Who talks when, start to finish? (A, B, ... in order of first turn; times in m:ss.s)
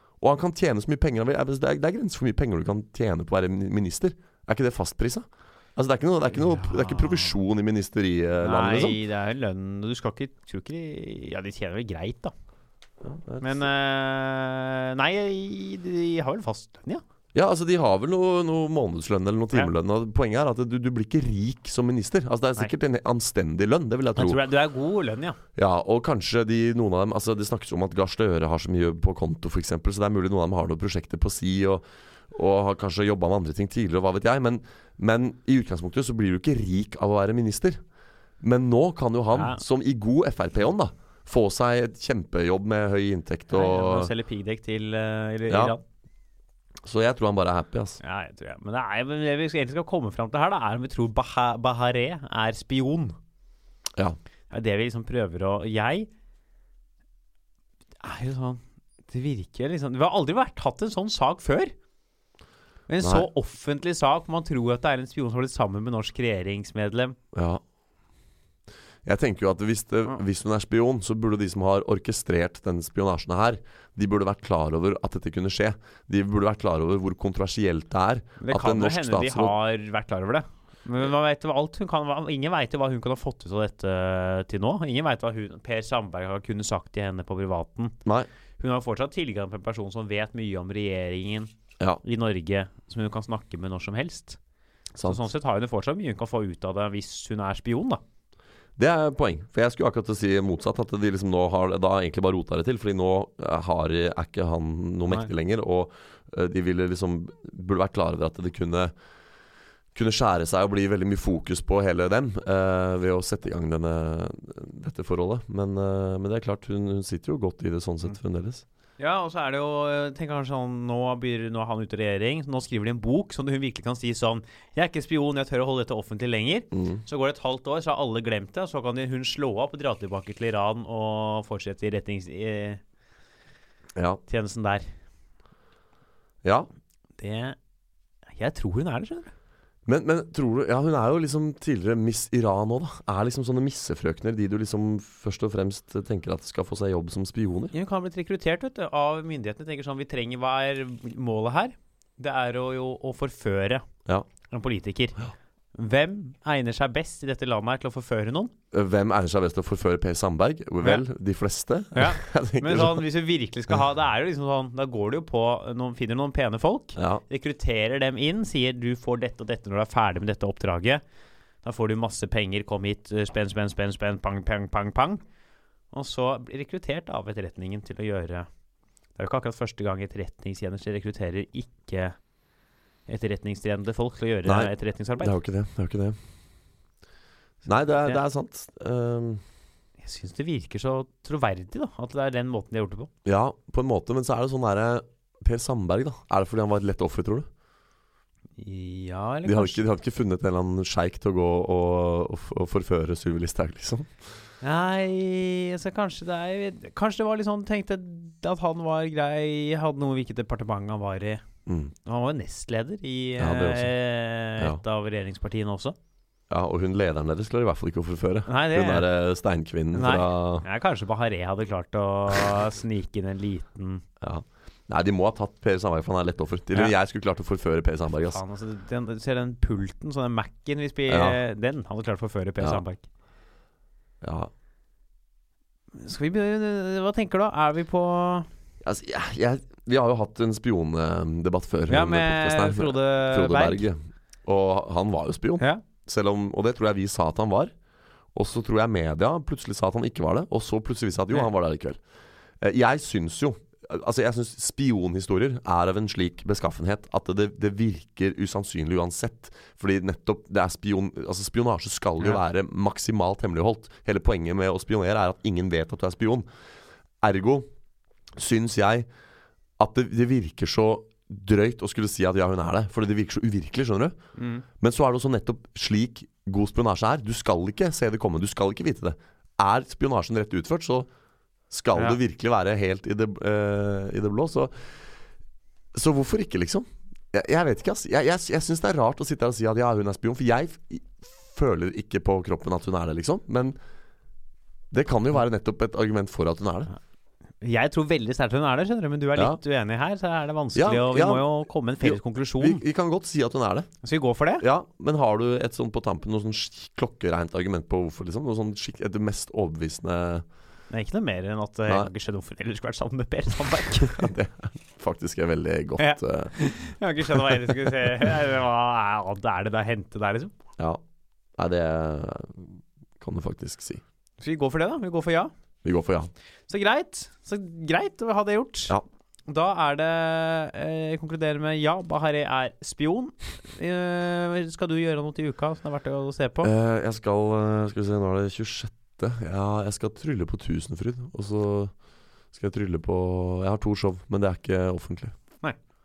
0:00.2-0:09.0 A
0:06.4-0:07.3 B
0:08.4-0:12.3 B
0:13.0-0:13.6 A
0:13.4-0:17.0 B
0:17.3-0:24.4 A
0:24.2-0:25.4 B
0:25.6-0:37.8 A
0:38.4-0:44.1 A
0:39.3-0:39.6 B
0:43.5-0:45.8 B
0:45.5-0:45.7 A
0:46.8-0:48.0 A
0:48.0-0:53.2 B
0:54.5-0:56.1 B
0:58.0-1:01.7 B
1:02.9-1:07.2 B
1:03.0-1:03.3 A
1:07.3-1:07.6 A
1:09.0-1:19.5 A
1:18.4-1:28.0 B
1:28.6-1:31.5 B
1:32.0-1:34.4 B
1:35.0-1:35.2 A
1:35.0-1:38.0 B
1:38.8-1:48.9 A
1:49.9-1:58.6 A
1:59.0-2:12.8 B
2:06.7-2:07.0 A
2:14.0-2:14.2 A
2:14.3-2:14.9 B
2:17.2-2:17.6 B
2:18.4-2:19.3 B
2:19.8-2:27.7 A
2:27.7-2:33.8 B
2:34.5-2:38.5 B
2:38.7-2:43.0 A
2:41.9-2:51.0 B
2:47.0-2:47.2 A
2:51.6-2:55.2 B
2:55.9-2:58.5 B
2:59.2-3:02.2 B
3:03.1-3:05.4 B
3:04.4-3:06.2 A
3:07.6-3:09.4 A
3:10.0-3:13.1 B
3:13.2-3:17.5 A
3:18.6-3:19.8 B
3:19.4-3:24.1 A
3:24.6-3:31.4 B
3:31.7-3:31.9 A
3:32.0-3:36.0 B
3:33.4-3:33.9 A
3:36.5-3:40.6 A
3:38.5-3:39.1 B
3:39.9-3:44.0 B
3:44.2-3:48.4 A
3:48.2-3:53.1 B
3:51.1-3:51.4 A
3:54.2-3:54.5 A
3:55.9-3:58.5 B
3:58.8-4:07.7 A
4:01.9-4:03.8 B
4:08.3-4:12.0 A
4:12.6-4:26.4 A
4:27.2-4:27.7 A
4:28.4-4:29.1 A
4:29.8-4:34.2 A
4:34.4-4:34.6 B
4:34.8-4:41.1 A
4:41.7-4:44.9 A
4:45.9-4:53.7 A
4:54.9-4:56.9 A
4:57.6-5:02.8 B
5:00.7-5:01.5 A
5:02.0-5:03.9 A
5:04.0-5:04.6 B
5:04.6-5:10.4 A
5:10.9-5:14.3 B
5:14.1-5:16.7 A
5:16.0-5:20.5 B
5:17.3-5:17.9 A
5:21.6-5:24.0 A
5:24.4-5:25.5 B
5:25.8-5:26.3 A
5:26.7-5:29.0 B
5:29.5-5:36.7 B
5:36.6-5:41.9 A
5:42.5-5:45.3 A